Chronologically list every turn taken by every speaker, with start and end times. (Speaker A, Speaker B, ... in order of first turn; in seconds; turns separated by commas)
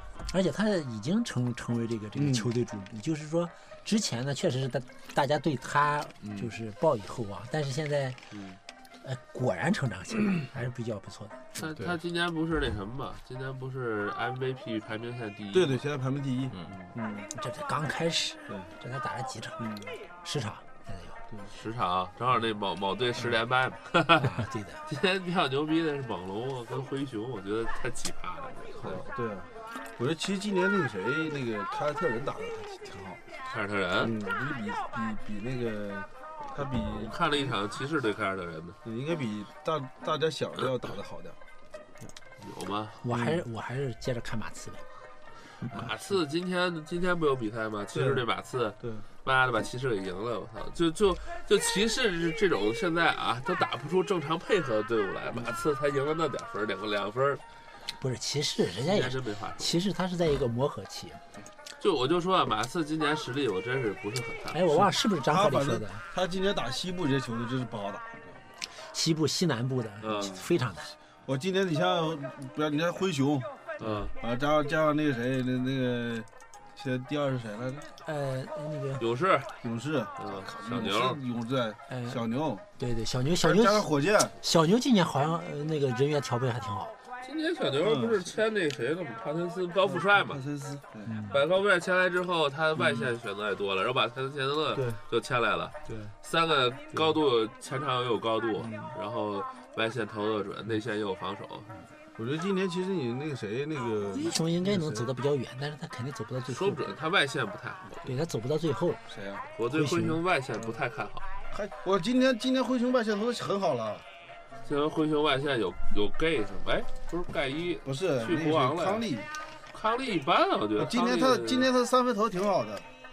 Speaker A: 0.3-8.2, Speaker B: 2.1-2.5, Speaker A: 9.0-11.4, Speaker C: 11.6-15.8, Speaker B: 15.5-17.3, Speaker A: 17.3-19.7, Speaker B: 19.6-19.9, Speaker A: 20.2-21.2, Speaker C: 21.5-29.0, Speaker A: 24.1-24.8, Speaker B: 28.8-33.2, Speaker C: 33.5-34.1, Speaker B: 34.0-37.3, Speaker C: 36.8-38.8, Speaker B: 38.8-41.4, Speaker C: 42.4-43.0, Speaker A: 43.0-44.8, Speaker B: 43.1-43.4, Speaker C: 45.6-57.4, Speaker B: 47.9-48.2, Speaker B: 48.8-49.0, Speaker A: 58.0-61.2, Speaker C: 58.8-59.8, Speaker C: 61.8-64.8, Speaker A: 64.5-66.0, Speaker B: 64.8-68.4, Speaker A: 68.8-70.9, Speaker C: 70.0-70.3, Speaker B: 70.1-70.5, Speaker B: 71.2-73.5, Speaker C: 73.8-74.1, Speaker B: 74.1-77.9, Speaker A: 78.0-79.0, Speaker C: 79.0-79.5, Speaker B: 79.6-82.6, Speaker C: 80.2-81.2, Speaker A: 81.9-82.2, Speaker A: 82.8-83.9, Speaker B: 83.4-84.3, Speaker A: 84.4-86.9, Speaker C: 87.2-90.5, Speaker B: 87.8-88.3, Speaker B: 89.8-91.1, Speaker A: 91.0-91.4, Speaker C: 91.3-101.7, Speaker B: 92.8-93.1, Speaker B: 94.7-95.0, Speaker B: 95.9-96.1, Speaker B: 98.6-98.9, Speaker B: 102.2-105.1, Speaker A: 104.0-106.9, Speaker C: 106.5-108.0, Speaker A: 108.0-109.0, Speaker B: 109.1-109.4, Speaker C: 109.5-111.3, Speaker A: 109.7-110.2, Speaker B: 111.5-114.0, Speaker C: 114.6-119.1, Speaker B: 117.8-119.3, Speaker C: 119.7-121.7, Speaker B: 120.8-122.9